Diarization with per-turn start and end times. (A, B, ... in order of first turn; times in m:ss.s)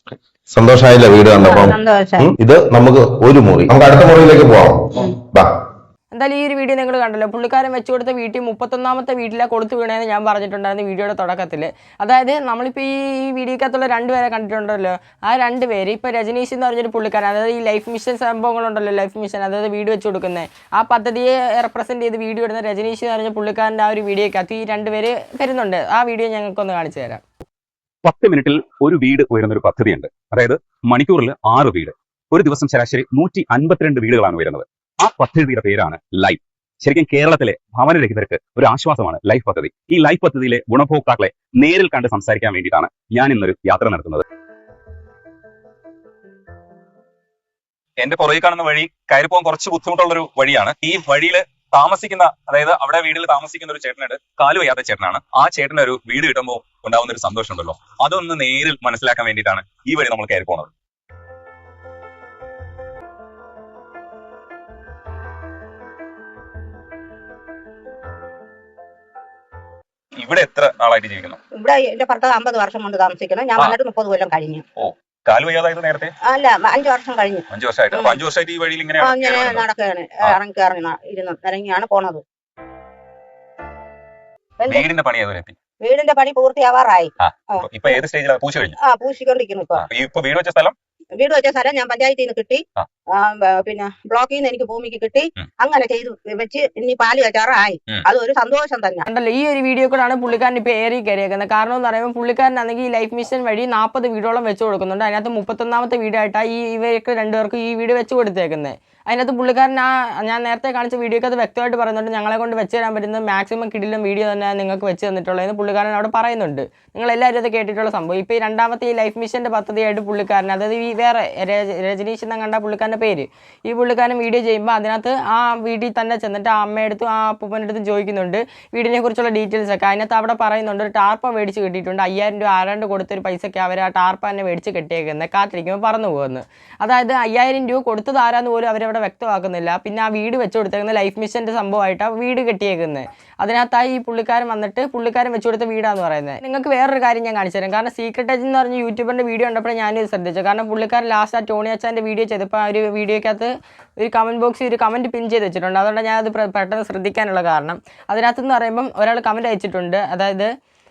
0:00.5-0:04.8 A
0:01.4-0:02.3 B
0:06.1-0:27.2 C
0:28.0-0:44.2 D
0:48.0-1:00.7 D
1:10.2-1:11.4 D
1:11.6-1:14.6 B
1:14.8-1:16.1 D
1:16.3-1:18.2 B
1:17.5-1:19.7 D
1:19.0-1:22.2 B
1:24.6-1:24.9 B
1:24.7-1:25.6 D
1:25.8-1:28.0 B
1:27.2-1:28.8 D
1:28.8-1:29.8 B
1:29.7-1:30.8 D
1:31.2-1:32.6 B
1:33.2-1:39.0 B
1:39.1-2:40.5 C